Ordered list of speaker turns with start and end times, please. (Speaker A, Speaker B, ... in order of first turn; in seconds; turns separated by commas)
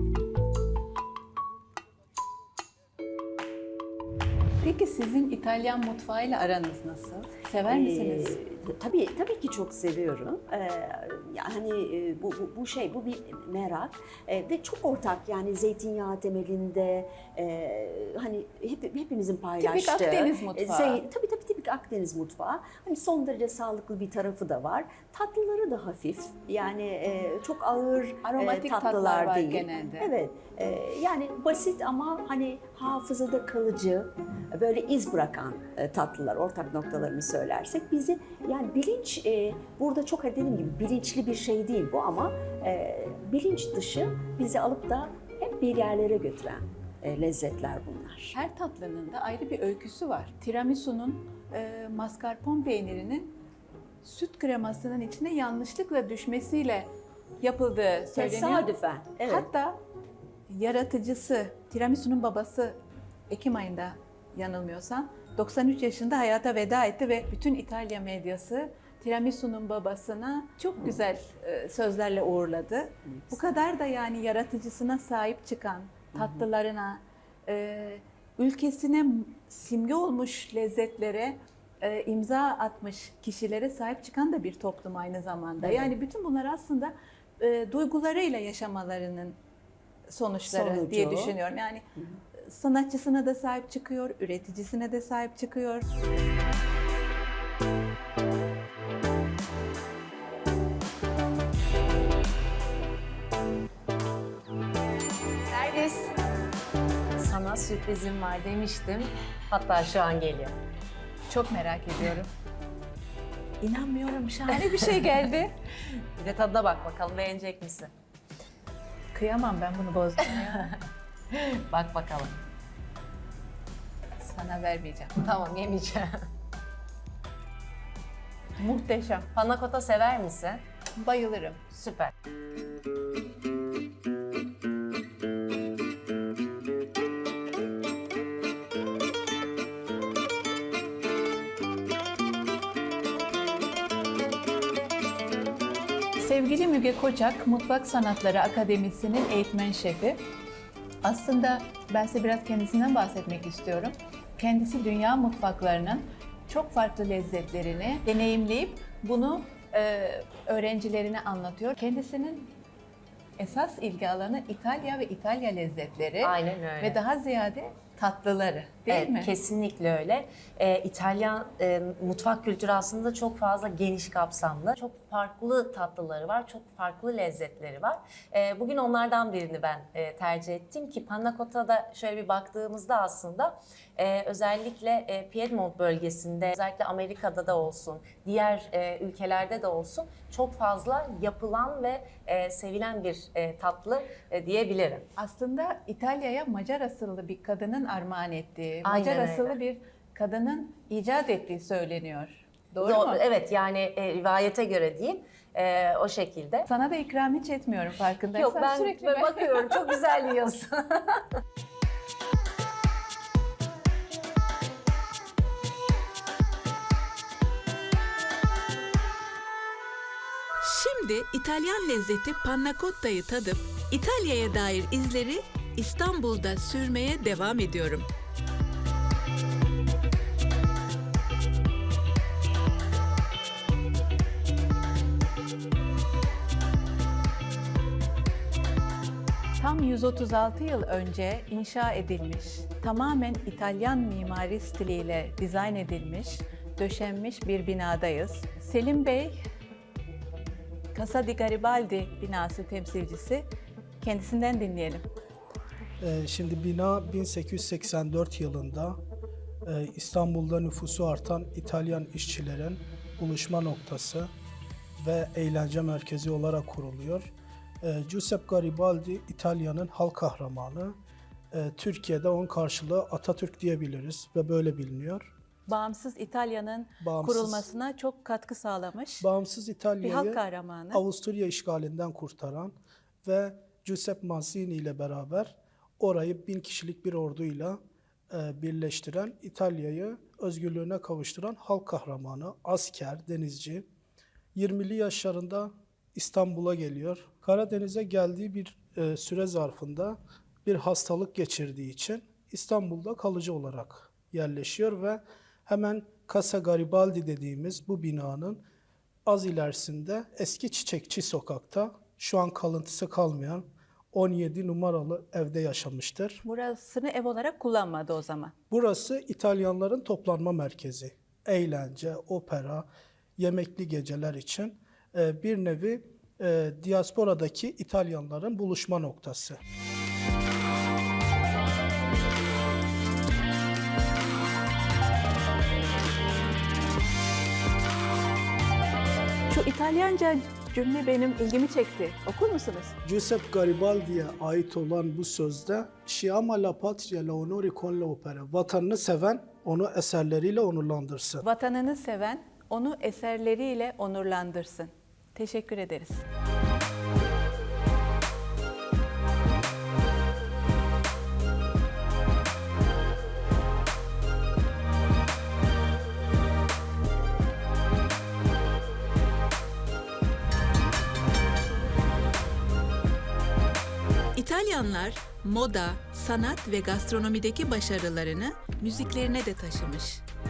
Speaker A: 4.6-8.4, Speaker B: 7.7-48.4, Speaker A: 19.6-21.0, Speaker A: 28.2-30.1, Speaker A: 48.3-53.4, Speaker A: 54.0-56.9, Speaker A: 57.4-58.7, Speaker B: 58.1-59.5, Speaker A: 59.3-59.8, Speaker A: 60.5-62.8, Speaker A: 63.3-89.4, Speaker B: 73.2-73.5, Speaker B: 76.1-76.4, Speaker B: 85.6-85.9, Speaker A: 90.1-91.8, Speaker B: 90.5-91.4, Speaker A: 92.4-95.9, Speaker C: 105.5-106.1, Speaker C: 107.2-110.5, Speaker A: 111.3-112.3, Speaker A: 113.6-115.6, Speaker C: 114.6-115.2, Speaker C: 115.9-117.9, Speaker A: 119.1-120.7, Speaker C: 121.3-122.4, Speaker A: 124.2-125.2, Speaker C: 125.2-126.1, Speaker A: 128.6-129.3, Speaker C: 129.3-130.6, Speaker A: 131.0-131.6, Speaker C: 131.7-132.1, Speaker A: 146.2-150.2, Speaker A: 151.0-162.5, Speaker A: 163.4-169.3, Speaker C: 166.2-167.0, Speaker C: 168.9-195.1, Speaker A: 195.2-203.2, Speaker C: 198.8-199.6, Speaker C: 202.8-206.7, Speaker A: 206.7-209.9, Speaker C: 208.4-211.2, Speaker A: 220.6-228.1, Speaker A: 239.6-249.4, Speaker A: 250.9-253.5, Speaker A: 254.0-255.1, Speaker D: 256.0-259.0, Speaker D: 259.6-264.3, Speaker D: 265.0-271.0, Speaker D: 271.5-275.3, Speaker A: 275.7-279.3, Speaker D: 277.0-277.7, Speaker D: 279.2-287.8, Speaker A: 280.0-281.0, Speaker D: 288.3-293.9, Speaker D: 294.6-308.6, Speaker D: 309.3-316.4, Speaker A: 316.4-318.5, Speaker D: 318.7-329.6, Speaker A: 339.5-343.0, Speaker D: 343.0-351.4, Speaker A: 351.4-356.2, Speaker A: 374.4-380.2